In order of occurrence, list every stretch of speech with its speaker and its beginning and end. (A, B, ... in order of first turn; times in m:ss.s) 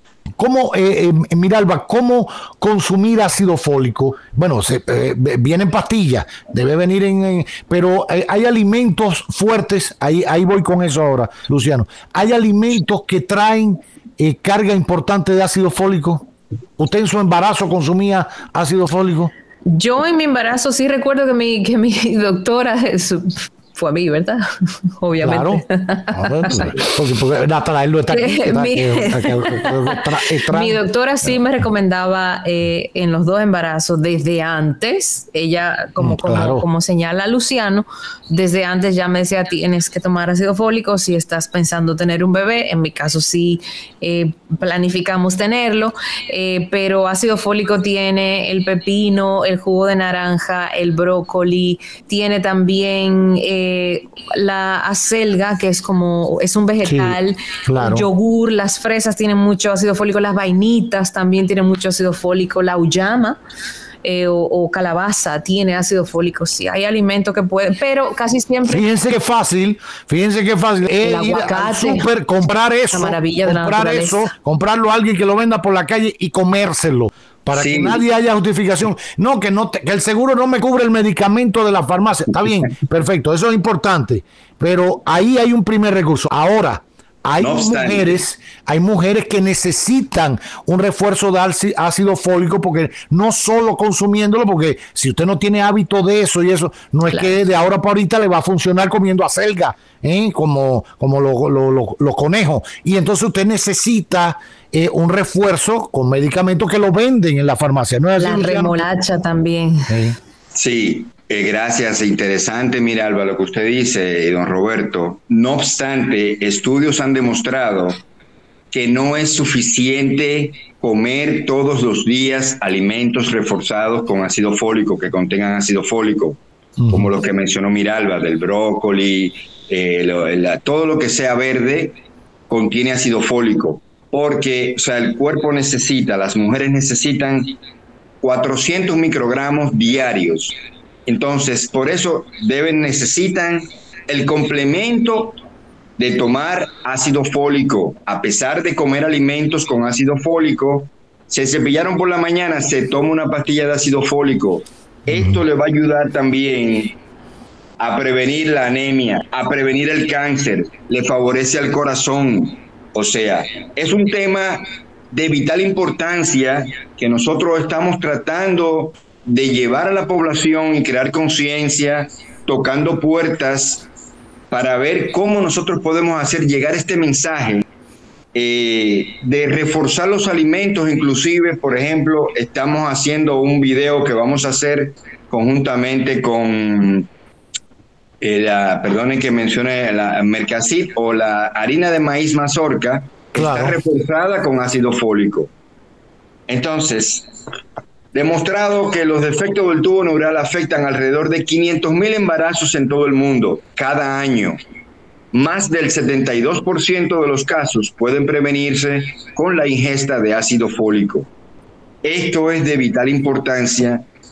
0:00.4-0:19.3 A
0:19.7-0:24.4 B
0:25.0-0:26.7 B
0:25.2-0:30.8 A
0:26.5-0:26.8 C
0:28.1-1:03.4 B
0:36.0-0:36.6 A
0:56.8-0:58.1 A
1:04.0-1:08.8 B
1:08.6-1:48.8 A
1:11.0-1:12.1 B
1:12.9-1:14.3 B
1:17.5-1:18.0 C
1:27.4-1:28.2 C
1:37.1-1:37.4 B
1:48.2-1:49.9 B
1:49.9-1:50.2 A
1:50.5-1:58.0 C
1:58.7-2:06.4 C
2:06.8-2:07.1 A
2:06.9-2:12.0 C
2:12.5-2:17.6 C
2:18.2-2:25.4 C
2:26.0-2:37.0 C
2:35.1-2:35.4 A
2:37.8-2:53.9 C
2:54.5-2:57.6 C
2:58.3-3:07.1 C
3:08.2-3:15.5 C
3:13.4-3:13.8 A
3:16.5-3:17.3 C
3:18.1-3:24.6 C
3:25.3-3:31.3 C
3:32.0-3:34.0 C